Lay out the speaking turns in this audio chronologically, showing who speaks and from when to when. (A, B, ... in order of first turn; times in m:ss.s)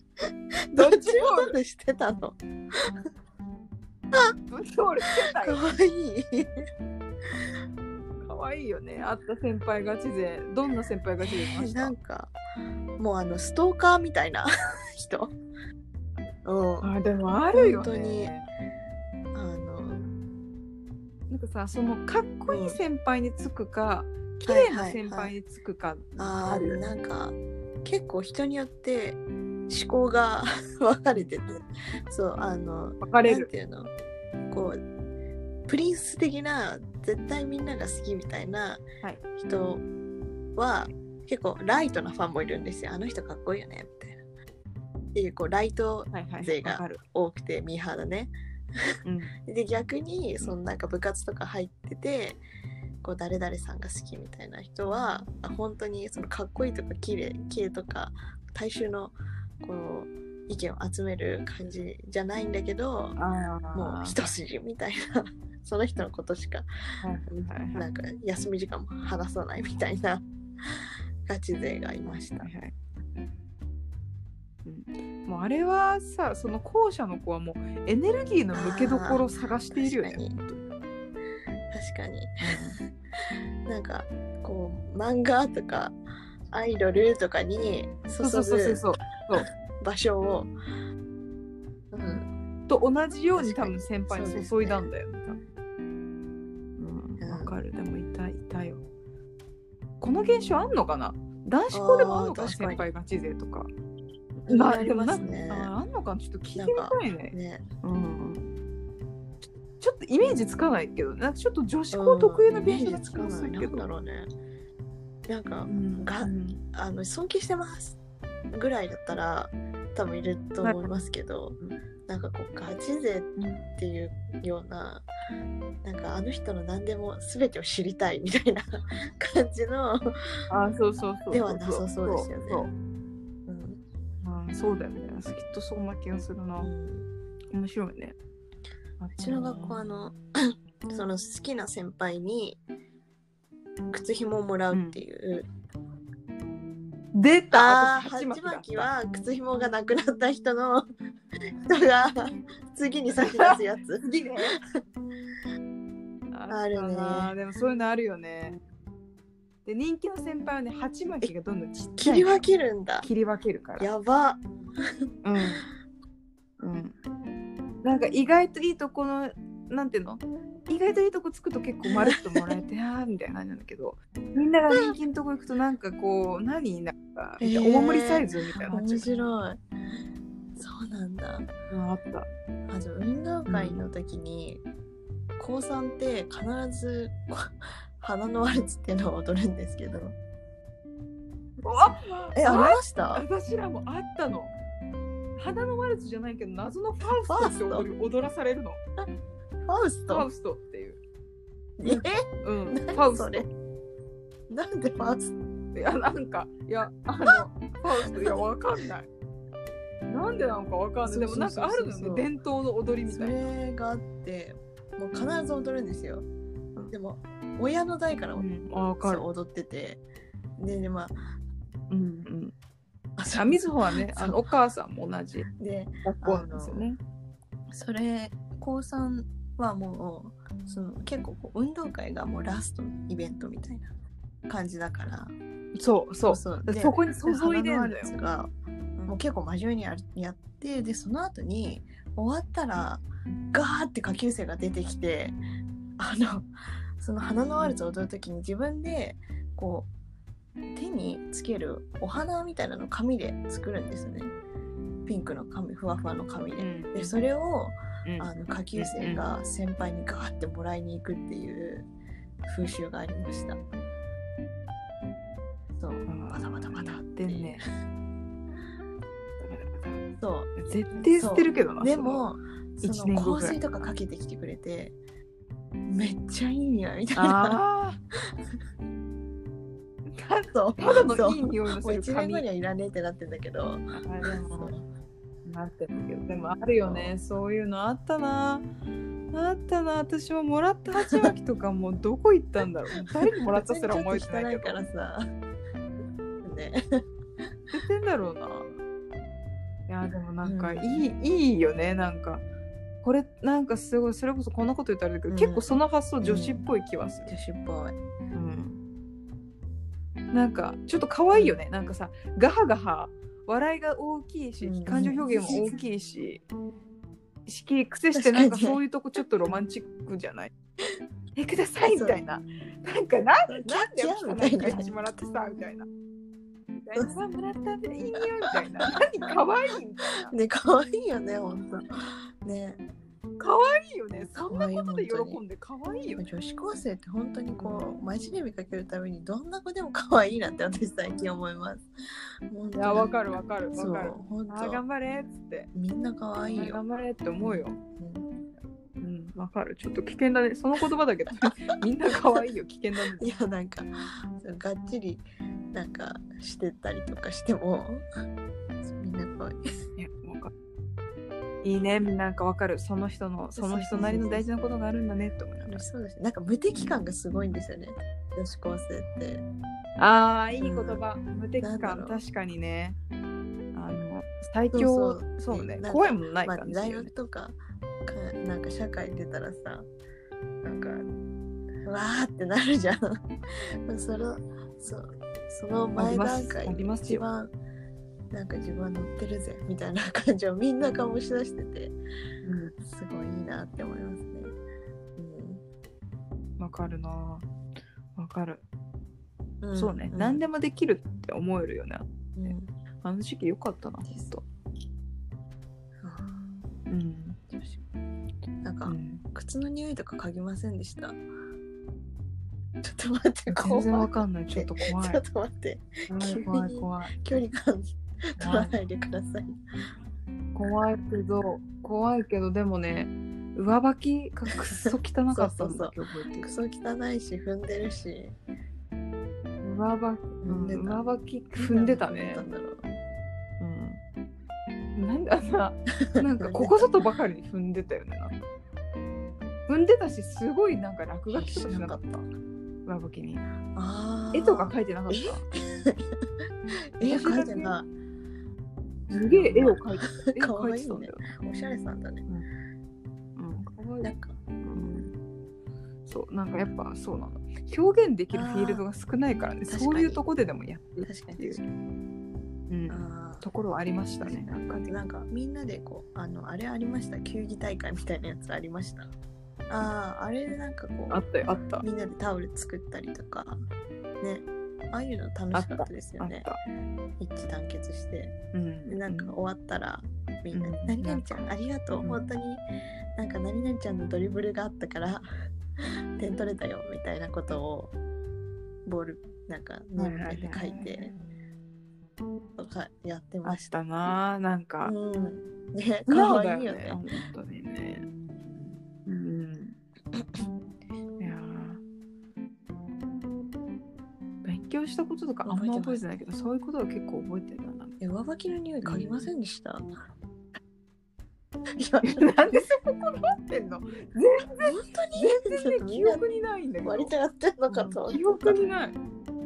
0:00.7-0:03.0 A
0:00.7-0:01.6 B
0:04.5-0:05.6 B
0:05.2-0:06.6 A
0:08.2-0:11.9 B
0:11.2-0:12.3 A
0:13.0-0:15.3 A
0:16.4-0:16.9 A
0:16.8-0:18.5 B
0:17.5-0:18.3 A
0:19.3-0:20.0 A
0:21.3-0:26.8 B
0:22.5-0:22.8 A
0:24.4-0:25.3 A
0:26.2-0:33.9 A
0:33.0-0:33.5 B
0:34.5-0:34.8 A
0:35.7-0:38.8 A
0:39.4-0:39.8 A
0:40.6-0:44.2 A
0:45.1-0:48.9 A
0:46.1-0:47.0 B
0:49.0-0:49.3 B
0:49.4-0:52.4 A
0:53.0-1:03.2 A
1:03.2-1:04.2 B
1:03.7-1:06.7 A
1:07.0-1:07.8 B
1:07.3-1:10.2 A
1:11.2-1:12.5 A
1:12.4-1:12.7 B
1:14.6-1:20.6 B
1:18.5-1:20.4 A
1:21.7-1:22.6 A
1:22.4-1:22.8 B
1:23.7-1:26.0 A
1:26.5-1:28.8 A
1:28.2-1:29.5 B
1:29.7-1:30.5 A
1:31.9-1:32.3 A
1:32.7-1:35.4 B
1:33.3-1:34.9 A
1:36.8-1:38.8 B
1:37.2-1:37.5 A
1:40.0-1:43.7 B
1:41.7-1:42.8 A
1:44.4-1:48.4 B
1:44.5-1:45.7 A
1:46.5-1:47.6 A
1:49.8-1:53.8 B
1:51.9-1:54.3 A
1:55.3-1:58.0 A
1:55.7-1:56.6 B
1:58.5-2:01.6 A
2:00.6-2:00.9 B
2:02.1-2:05.0 A
2:03.4-2:03.6 B
2:05.8-2:10.4 A
2:10.5-2:12.7 B
2:11.3-2:12.7 A
2:13.5-2:13.8 A
2:14.2-2:16.7 B
2:16.6-2:17.1 A
2:17.5-2:18.2 B
2:19.0-2:19.8 B
2:19.2-2:22.6 A
2:23.9-2:25.5 A
2:24.7-2:25.0 B
2:27.1-2:28.8 B
2:27.5-2:30.9 A
2:31.7-2:34.0 A
2:33.2-2:34.6 B
2:36.3-2:38.6 B
2:36.5-2:37.3 A
2:39.6-2:42.4 B
2:42.0-2:43.1 A
2:43.0-2:43.9 B
2:43.8-2:44.8 A
2:45.2-2:45.7 B
2:46.6-2:47.0 B
2:47.8-2:59.2 B
2:51.8-2:52.6 A
2:57.4-2:59.6 A
3:00.6-3:01.5 A
3:01.7-3:02.3 B
3:02.7-3:04.6 A
3:03.5-3:03.8 B
3:05.4-3:10.2 A
3:11.6-3:14.5 B
3:12.4-3:13.2 A
3:15.4-3:18.8 B
3:17.2-3:17.9 A
3:19.6-3:20.3 A
3:20.1-3:21.0 B
3:21.8-3:23.5 A
3:21.8-3:23.5 B
3:24.5-3:25.3 A
3:25.7-3:29.1 B
3:28.1-3:28.4 A
3:30.1-3:33.4 B
3:31.0-3:32.3 A
3:33.1-3:36.3 A
3:36.9-3:40.0 A
3:38.4-3:39.3 B
3:40.6-3:41.1 A
3:41.9-3:42.5 B
3:43.2-3:44.4 A
3:43.4-3:45.5 B
3:45.5-3:46.9 A
3:46.0-3:47.0 B
3:47.7-3:53.9 A
3:54.5-3:55.3 A
3:55.7-3:58.1 B
3:56.3-3:58.5 A
3:59.1-4:05.4 A
4:06.0-4:09.9 A
4:10.7-4:14.3 A
4:15.0-4:21.9 A
4:16.6-4:17.2 B
4:18.0-4:19.2 B
4:22.4-4:23.6 A
4:25.8-4:27.6 A
4:26.1-4:27.6 B
4:29.4-4:30.0 B
4:30.2-4:34.9 A
4:30.6-4:32.2 B
4:32.8-4:33.6 B
4:35.9-4:37.6 A
4:37.1-4:38.0 B
4:40.1-4:42.4 B
4:40.5-4:44.8 A
4:43.9-4:44.7 B
4:45.4-4:48.6 B
4:46.8-4:47.1 A
4:49.3-4:54.8 B
4:53.2-4:55.2 A
4:56.4-4:57.0 A
4:57.7-4:58.7 B
4:59.9-5:02.4 B
5:00.4-5:01.0 A
5:03.0-5:07.3 B
5:05.3-5:06.6 A
5:07.3-5:08.0 A
5:08.3-5:08.8 B
5:10.3-5:16.4 B
5:11.3-5:11.6 A
5:14.6-5:15.8 A
5:17.4-5:20.5 B
5:18.1-5:18.8 A
5:21.4-5:25.9 B
5:21.9-5:22.2 A
5:23.5-5:25.1 A
5:26.8-5:30.3 B
5:30.3-5:32.8 A
5:33.4-5:36.3 B
5:34.5-5:35.4 A
5:36.2-5:41.8 A
5:37.6-5:37.9 B
5:42.5-5:43.1 A
5:42.8-5:45.7 B
5:43.8-5:44.8 A
5:45.7-5:46.8 A
5:46.4-5:47.8 B
5:47.4-5:48.2 A
5:49.0-5:53.3 B
5:52.1-5:52.4 A
5:53.2-5:58.0 A
5:58.8-5:59.8 A
6:00.0-6:00.5 B
6:01.6-6:05.9 B
6:03.5-6:04.4 A
6:05.6-6:09.4 A
6:06.7-6:07.4 B
6:10.0-6:13.0 B
6:10.6-6:11.0 A
6:11.6-6:12.2 A
6:13.7-6:17.1 B
6:14.7-6:19.9 A
6:20.6-6:21.1 A
6:21.8-6:23.2 A
6:23.8-6:27.5 A
6:26.0-6:27.2 B
6:28.3-6:31.9 A
6:32.4-6:32.7 B
6:32.8-6:34.5 A
6:35.2-6:35.6 A
6:36.6-6:37.4 B
6:38.2-6:38.6 B
6:39.6-6:40.4 A
6:39.7-6:44.4 B
6:42.4-6:42.7 A
6:46.0-6:46.4 A
6:46.9-6:47.4 B
6:47.5-6:47.8 A
6:48.6-6:51.2 A
6:48.8-6:49.2 B
6:52.8-6:59.6 A
6:53.5-6:55.2 B
6:56.1-6:57.2 B
6:58.4-6:58.7 B
7:00.5-7:06.5 B
7:04.5-7:08.4 A
7:09.6-7:12.4 B
7:10.4-7:11.0 A
7:11.6-7:12.8 A
7:13.6-7:14.0 B
7:15.0-7:18.4 B
7:16.1-7:16.9 A
7:19.7-7:22.2 B
7:21.3-7:22.0 A
7:22.8-7:23.4 B
7:23.7-7:26.2 A
7:24.3-7:25.4 B
7:27.0-7:27.9 A
7:27.0-7:27.7 B
7:29.1-7:31.3 B
7:29.3-7:32.2 A
7:33.4-7:34.1 B
7:34.0-7:34.3 A
7:34.6-7:35.1 B
7:36.0-7:41.6 B
7:38.3-7:38.8 A
7:39.7-7:40.2 A
7:41.0-7:41.6 A
7:42.7-7:44.9 B
7:42.9-7:43.4 A
7:44.2-7:49.1 A
7:49.7-7:51.2 A
7:51.1-7:51.8 B
7:51.8-7:53.6 A
7:54.2-7:56.4 A
7:55.5-7:56.6 B
7:57.2-7:58.3 A
7:58.5-7:59.3 B
7:58.9-8:02.6 A
8:00.5-8:01.4 B
8:03.2-8:05.3 A
8:06.2-8:07.9 A
8:08.8-8:11.1 A
8:10.0-8:11.2 B
8:12.6-8:13.6 A
8:13.4-8:14.9 B
8:14.8-8:17.0 A
8:16.1-8:19.8 B
8:21.2-8:21.8 B
8:24.4-8:27.9 B
8:25.4-8:26.3 A
8:28.0-8:29.8 A
8:28.8-8:29.3 B
8:31.8-8:32.7 A
8:32.0-8:37.1 B
8:34.6-8:36.2 A
8:36.8-8:38.6 A
8:37.7-8:39.0 B